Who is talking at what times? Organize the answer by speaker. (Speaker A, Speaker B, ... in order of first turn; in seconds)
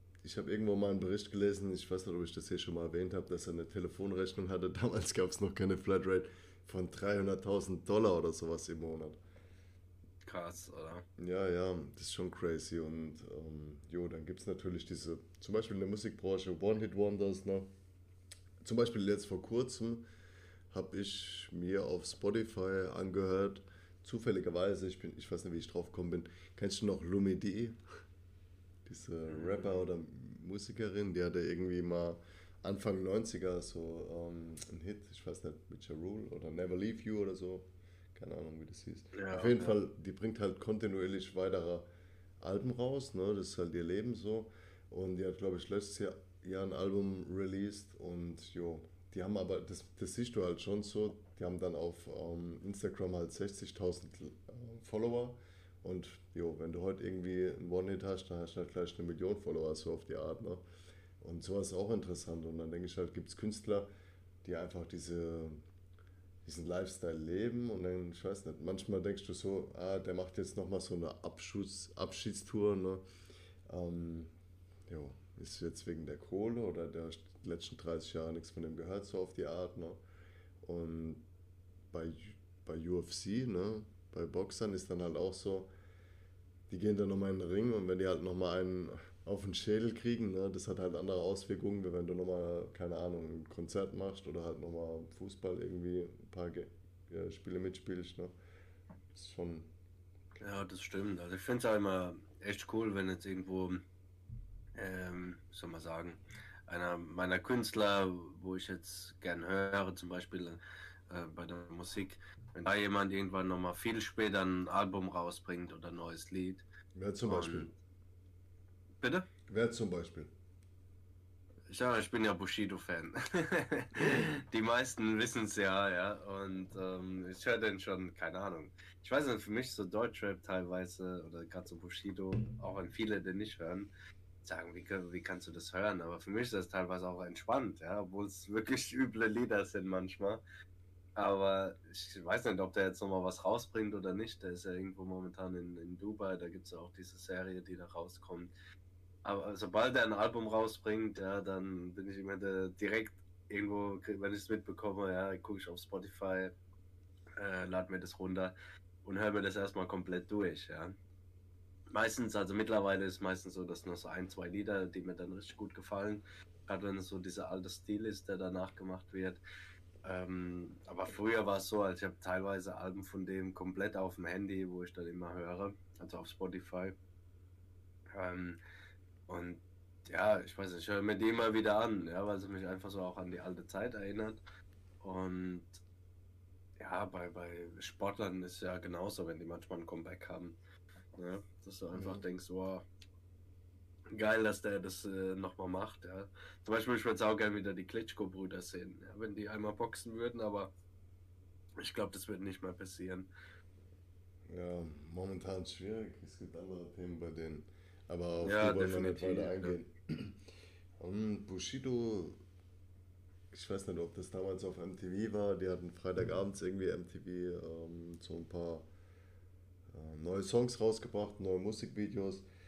Speaker A: 0.2-9.2, 11.2-17.7, 18.6-20.1, 20.7-27.8, 28.9-41.9, 42.4-60.6, 61.2-63.9, 64.4-65.6, 66.5-73.1, 73.7-74.3, 74.9-80.0, 80.6-81.2, 81.9-85.7, 86.7-98.3, 99.1-99.7, 117.0-117.7, 119.5-120.3, 191.9-192.2, 204.5-210.4, 211.0-212.4, 213.5-218.9, 219.9-222.5
Speaker B: 10.2-11.1, 29.3-29.8, 39.1-39.8, 100.4-103.8, 104.8-116.7, 117.3-117.7, 119.0-119.3, 121.7-133.9, 134.4-140.4, 141.2-148.5, 149.2-156.5, 157.4-160.9, 161.9-169.4, 170.1-176.9, 178.1-178.6, 179.3-184.4, 185.0-185.8, 186.8-190.6, 191.2-192.8, 194.1-200.7, 201.8-203.3, 208.4-209.8